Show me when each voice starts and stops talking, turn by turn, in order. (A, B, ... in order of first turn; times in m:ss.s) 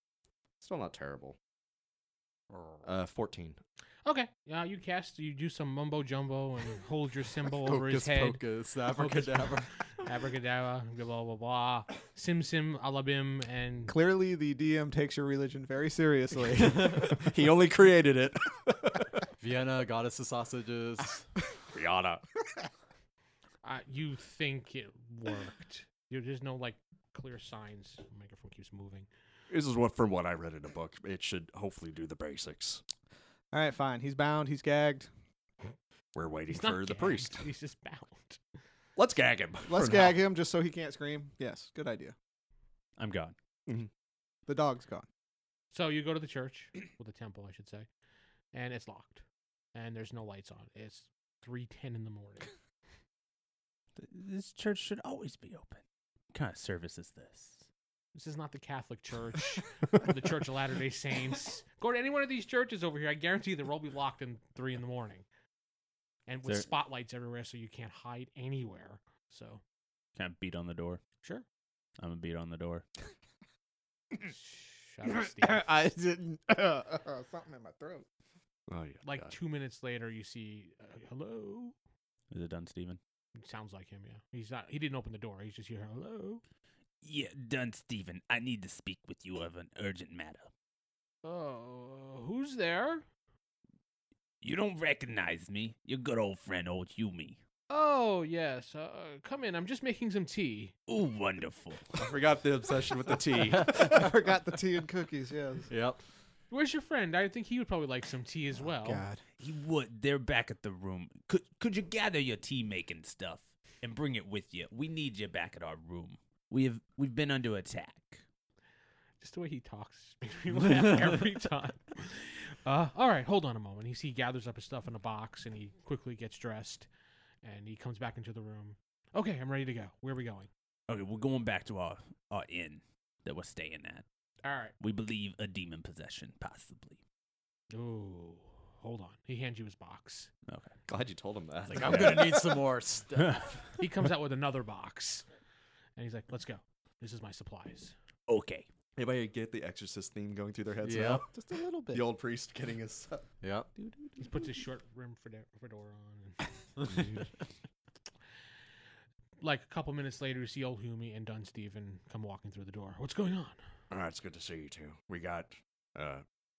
0:00.6-0:01.4 A
0:02.5-0:02.9 B
0:02.8-0:03.6 A
0:04.0-0:08.4 C
0:07.6-0:09.7 B
0:09.0-0:09.5 A
0:10.0-0:14.0 C
0:13.9-0:17.2 D
0:16.6-0:17.1 B
0:17.0-0:19.1 A
0:19.4-0:21.2 B
0:21.7-0:22.3 A
0:23.6-0:29.1 C
0:29.5-0:32.8 A
0:33.5-0:35.1 D
0:36.2-0:37.5 A
0:36.5-0:38.4 C
0:39.0-0:40.2 A
0:39.7-0:42.2 D
0:43.0-0:43.4 E
0:44.5-0:45.1 D
0:45.7-0:47.9 C
0:48.5-0:49.2 C
0:49.7-0:52.5 C
0:54.0-0:55.8 E
0:56.3-0:57.7 E
0:58.2-1:05.3 C
1:06.3-1:09.6 C
1:10.2-1:11.0 E
1:12.0-1:12.8 E
1:14.3-1:15.7 C
1:15.1-1:18.1 D
1:18.7-1:19.3 A
1:19.0-1:21.8 C
1:22.3-1:23.0 E
1:23.4-1:26.4 C
1:27.0-1:30.5 E
1:31.2-1:33.1 C
1:34.4-1:37.4 E
1:37.7-1:40.7 C
1:40.9-1:42.0 E
1:42.0-1:44.1 A
1:43.5-1:43.9 B
1:43.7-1:45.7 D
1:45.7-1:46.0 B
1:46.5-1:49.0 C
1:48.6-1:49.2 D
1:49.4-1:58.2 E
1:59.2-2:06.9 C
2:07.4-2:10.5 C
2:10.9-2:14.0 E
2:14.4-2:14.8 C
2:14.8-2:17.0 E
2:17.7-2:20.3 C
2:20.5-2:20.7 E
2:20.9-2:22.4 A
2:21.7-2:23.4 B
2:21.8-2:22.6 E
2:23.8-2:25.2 C
2:26.0-2:27.9 C
2:28.3-2:28.7 E
2:29.0-2:31.3 A
2:30.8-2:31.2 B
2:31.1-2:32.1 D
2:31.9-2:33.2 A
2:33.4-2:33.7 B
2:34.2-2:36.4 C
2:39.4-2:43.6 C
2:43.9-2:46.2 A